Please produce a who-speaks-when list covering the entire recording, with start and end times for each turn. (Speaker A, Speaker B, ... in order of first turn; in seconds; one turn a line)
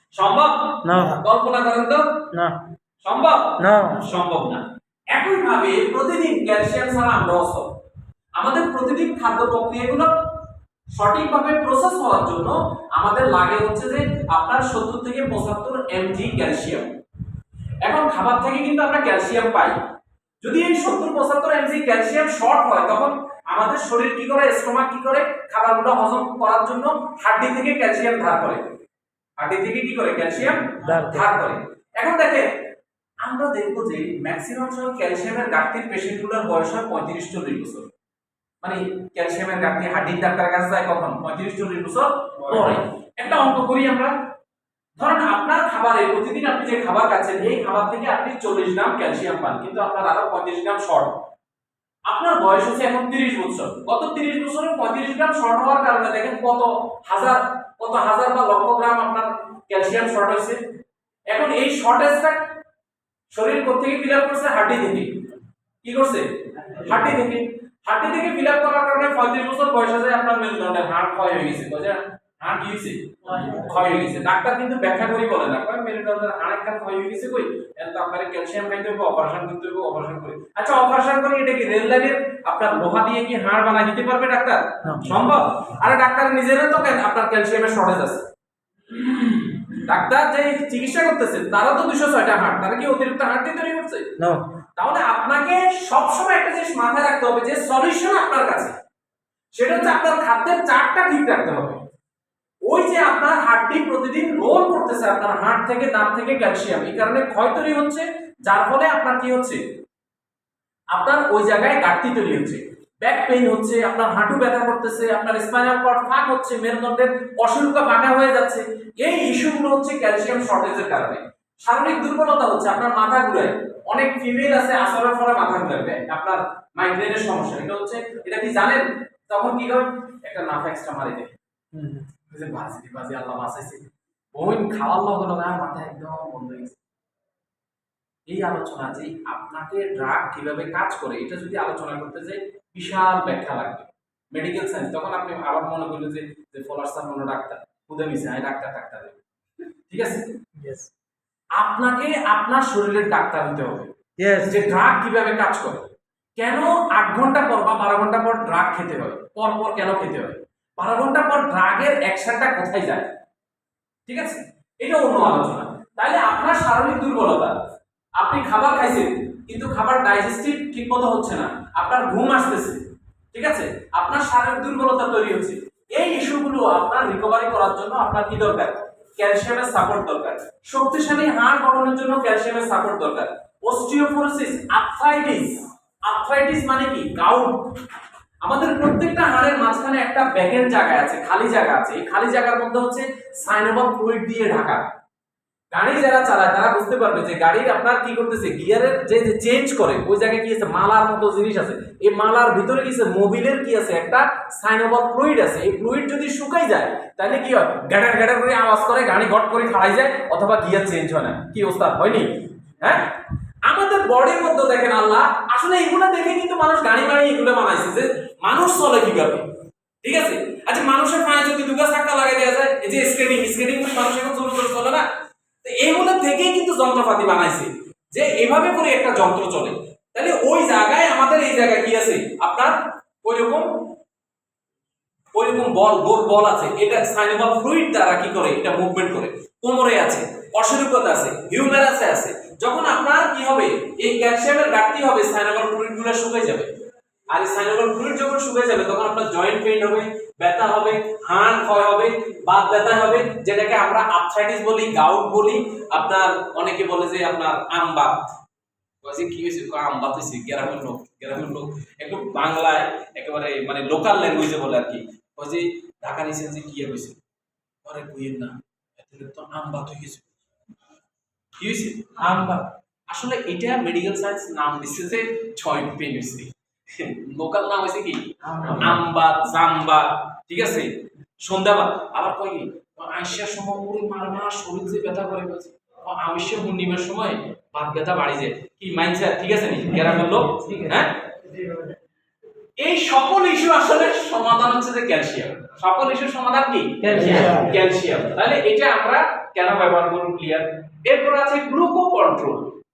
Speaker A: 0.1-2.0
Speaker B: 0.8-1.2
Speaker B: 2.3-2.6
Speaker A: 3.0-7.7
Speaker B: 3.6-4.0
Speaker A: 8.4-10.1
Speaker A: 10.9-16.9
Speaker A: 17.8-19.8
Speaker A: 20.4-28.6
Speaker A: 29.4-32.5
Speaker B: 30.8-31.3
Speaker A: 33.2-37.9
Speaker A: 38.6-44.1
Speaker A: 45.0-51.2
Speaker A: 52.1-60.6
Speaker A: 61.3-62.4
Speaker A: 63.3-65.1
Speaker A: 65.8-88.3
Speaker B: 73.3-73.7
Speaker B: 84.8-85.2
Speaker A: 89.2-94.1
Speaker B: 94.2-94.5
Speaker A: 94.8-98.8
Speaker A: 99.5-101.8
Speaker A: 102.7-109.6
Speaker A: 110.9-131.3
Speaker B: 131.7-132.1
Speaker A: 132.3-133.8
Speaker A: 134.3-136.8
Speaker A: 138.3-149.2
Speaker A: 149.9-150.2
Speaker B: 150.6-150.9
Speaker A: 151.6-163.1
Speaker B: 154.2-154.7
Speaker A: 164.1-167.6
Speaker A: 168.2-187.6
Speaker A: 188.4-194.8
Speaker A: 195.7-219.5
Speaker A: 220.0-225.0
Speaker A: 225.6-233.7
Speaker A: 235.3-246.7
Speaker A: 247.3-258.2
Speaker A: 259.0-267.2
Speaker A: 267.9-270.3
Speaker A: 271.6-291.2
Speaker B: 278.5-279.0
Speaker B: 290.6-290.9
Speaker A: 292.8-302.8
Speaker B: 297.0-297.8